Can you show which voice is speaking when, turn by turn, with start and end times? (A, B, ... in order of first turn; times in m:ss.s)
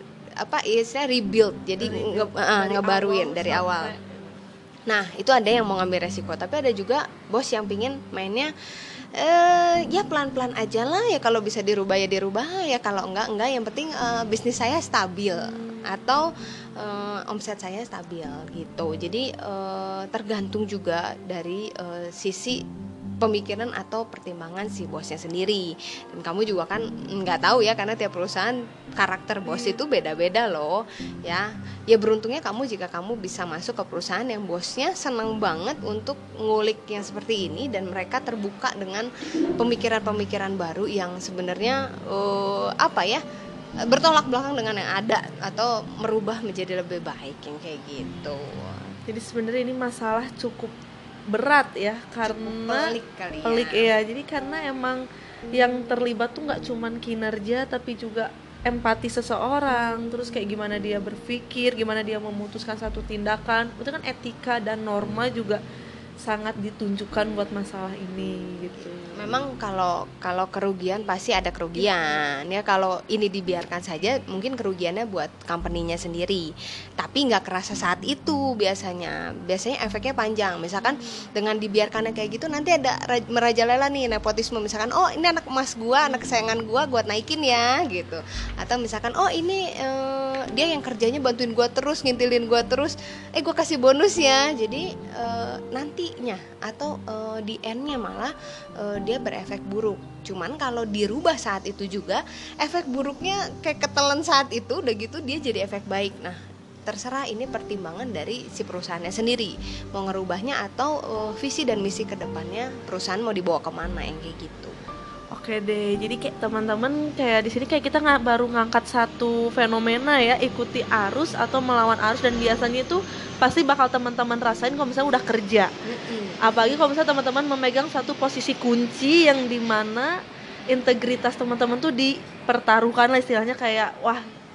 0:00.4-0:03.9 A
0:01.8-0:04.4 B
0:04.9-0:08.5 A
0:09.2-0:16.2 A
0:16.8-0:22.6 A
0:23.2-0:39.1 A
0:29.4-0:29.8 B
0:39.6-0:43.2 A
0:43.9-0:48.8 A
0:49.1-0:50.7 B
0:51.3-0:55.0 B
0:52.2-0:53.9 A
0:55.5-1:05.6 B
1:06.2-1:09.4 B
1:08.8-1:16.5 A
1:11.7-1:12.2 B
1:17.0-1:54.7 A
1:20.8-1:21.3 B
1:26.0-1:26.3 B
1:55.3-2:05.7 B
2:05.8-2:06.7 A
2:06.4-2:10.1 B
2:10.7-2:14.3 B